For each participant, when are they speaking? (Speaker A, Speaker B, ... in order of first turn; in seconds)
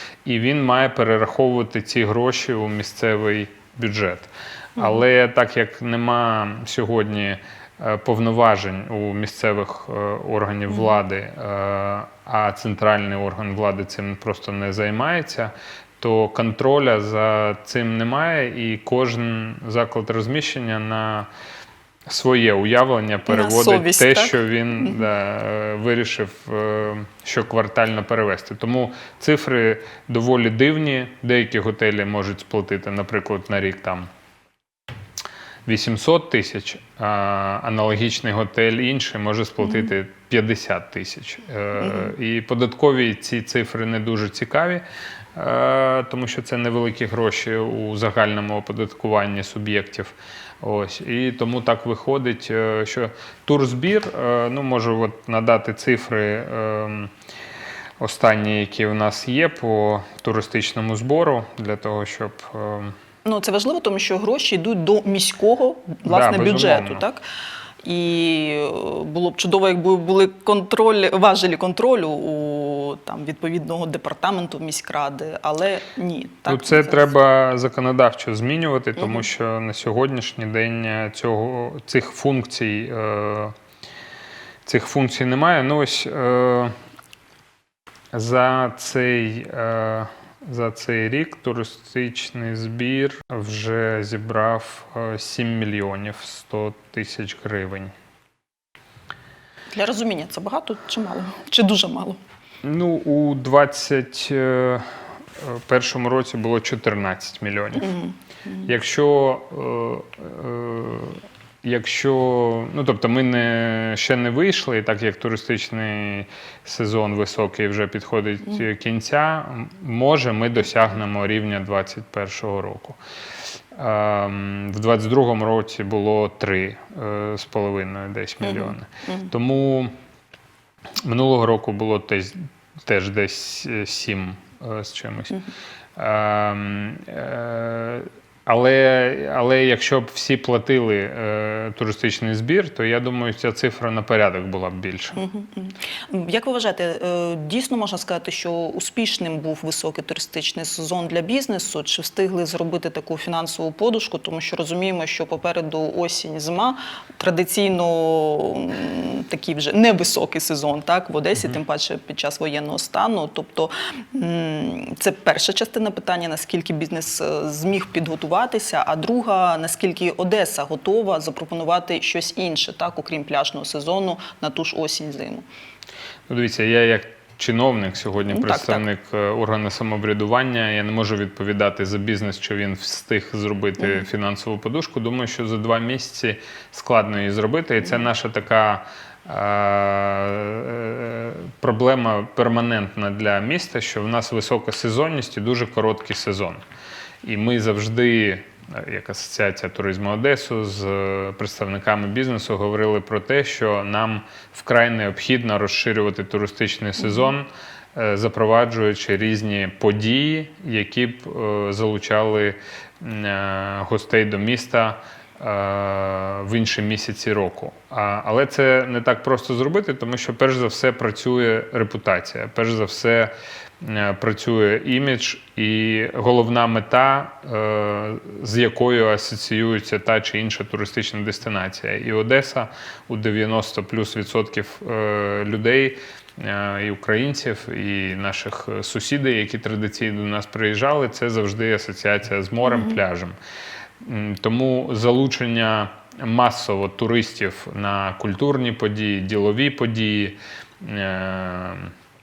Speaker A: 0.2-21.3, 22.1-34.1, 35.7-44.8, 45.4-57.1, 58.0-62.9, 66.0-67.0, 76.5-83.5, 84.7-86.7, 88.1-97.9, 102.6-104.8, 105.4-108.0, 108.6-123.0, 123.8-129.9, 131.0-135.4, 136.0-145.2, 176.3-196.6, 197.2-243.4, 244.0-251.9
Speaker B: 23.3-25.1, 41.8-42.1, 63.2-67.2, 67.8-77.1, 79.0-79.2, 99.7-102.2, 107.8-108.1, 128.5-129.3, 145.2-175.4, 178.3-178.8, 242.7-243.0